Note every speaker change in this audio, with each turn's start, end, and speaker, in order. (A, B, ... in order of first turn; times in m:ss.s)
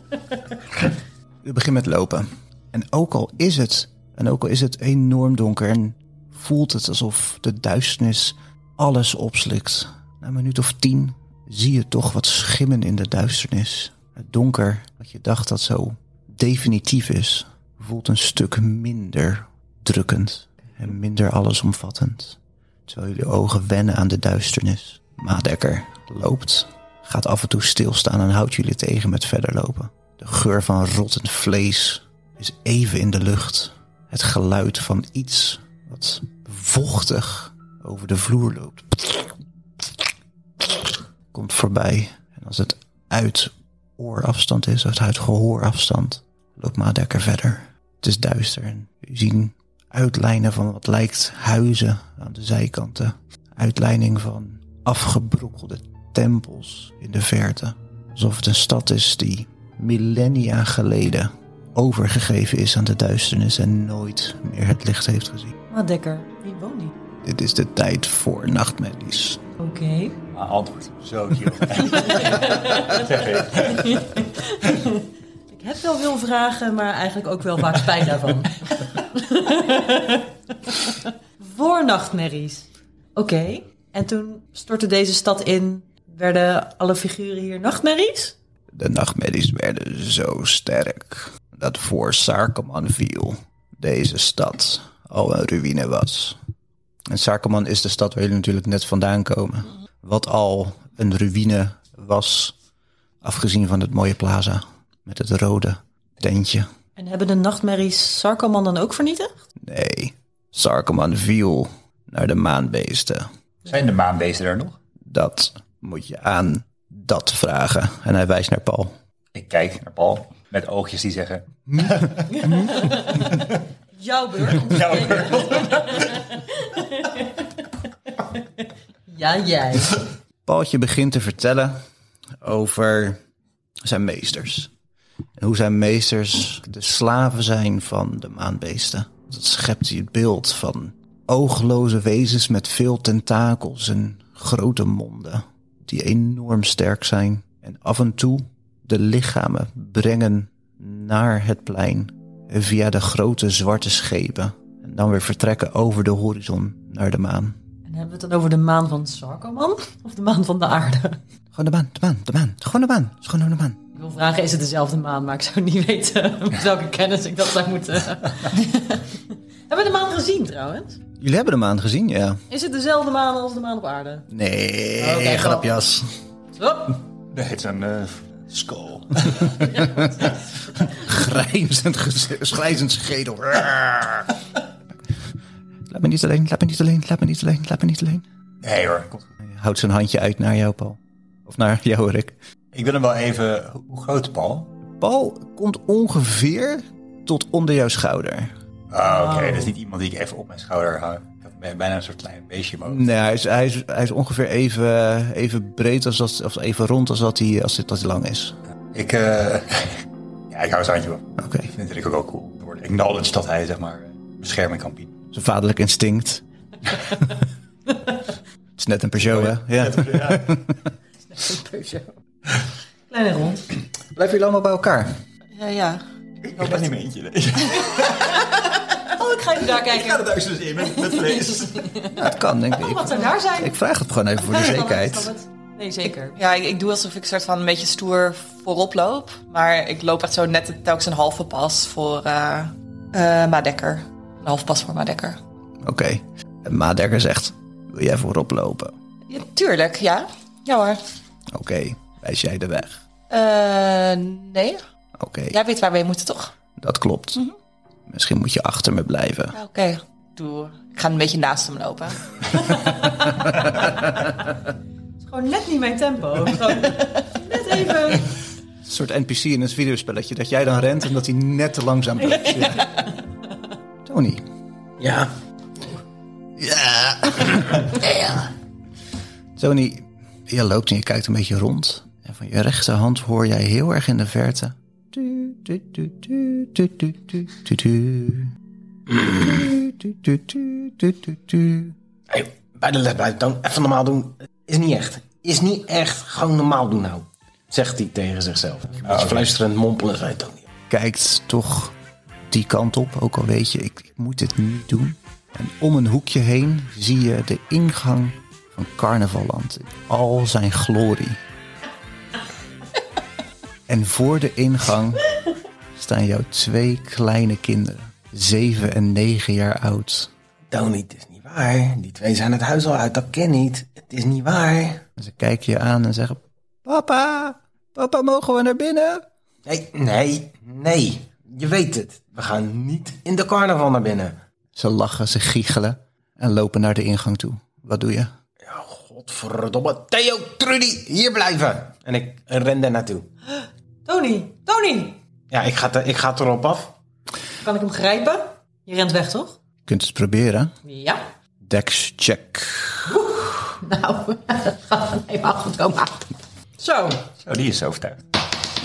0:01.4-0:39.9 A
0:40.6-1:05.6 A
1:05.7-1:06.9 B
1:07.2-1:09.4 A
1:09.6-1:10.2 B
1:10.3-1:14.2 C
1:12.2-1:13.0 B
1:13.7-1:28.4 B
1:28.7-1:36.4 A
1:37.1-1:42.6 A
1:43.2-1:46.7 A
1:47.0-1:49.3 B
1:49.6-1:53.3 A
1:53.7-1:54.8 C
1:55.1-1:58.9 A
1:59.4-2:03.4 C
2:01.7-2:02.8 A
2:02.3-2:03.4 B
2:04.0-2:07.5 B
2:04.5-2:06.2 C
2:09.1-2:10.0 B
2:10.5-2:11.8 A
2:12.4-2:13.2 A
2:13.8-2:14.7 A
2:15.4-2:37.6 A
2:37.9-2:41.2 B
2:41.5-2:43.8 A
2:44.0-2:49.2 B
2:49.7-2:51.0 B
2:51.2-2:52.4 A
2:52.5-2:54.3 B
2:54.3-2:56.1 A
2:55.0-2:55.6 B
2:56.6-2:57.0 B
2:57.3-2:59.6 C
2:59.7-3:00.3 B
3:00.9-3:04.3 A
3:05.9-3:08.2 A
3:08.6-3:09.2 C
3:09.4-3:12.4 A
3:12.7-3:14.7 C
3:15.0-3:18.5 A
3:18.9-3:23.1 C
3:19.1-3:19.7 B
3:22.9-3:28.6 A
3:28.9-3:35.2 C
3:31.4-3:31.7 A
3:35.3-3:36.4 A
3:38.8-3:40.8 A
3:39.2-3:40.6 C
3:41.3-3:42.1 B
3:43.1-3:43.7 B
3:44.1-3:45.2 A
3:45.6-3:46.0 D
3:46.4-3:48.6 C
3:46.6-3:46.9 D
3:49.1-3:52.2 B
3:49.6-3:52.1 C
3:52.1-3:55.3 A
3:52.8-3:53.8 B
3:54.4-3:56.4 B
3:56.4-4:05.4 D
4:05.8-4:08.9 A
4:09.3-4:11.0 D
4:11.5-4:13.0 A
4:13.3-4:14.8 D
4:15.2-4:15.6 A
4:15.5-4:16.5 D
4:16.8-4:17.4 A
4:18.1-4:19.6 A
4:19.5-4:23.0 D
4:25.2-4:28.3 B
4:28.8-4:33.0 A
4:34.0-4:34.4 A
4:35.0-4:35.3 E
4:36.6-4:38.3 A
4:39.6-4:48.5 A
4:49.1-4:49.4 E
4:49.3-4:52.0 A
4:52.3-5:00.7 E
4:59.0-4:59.5 C
5:00.9-5:02.0 A
5:02.5-5:11.4 A
5:13.9-5:15.3 A
5:16.0-5:20.3 A
5:20.7-5:25.0 E
5:25.2-5:29.2 A
5:29.7-5:34.4 E
5:34.8-5:38.3 A
5:38.6-5:43.3 E
5:43.6-5:45.2 B
5:45.5-5:47.0 E
5:47.6-5:49.6 B
5:49.9-5:50.7 A
5:50.8-5:51.3 B
5:51.6-5:53.2 A
5:53.1-5:57.2 B
5:57.4-5:58.2 C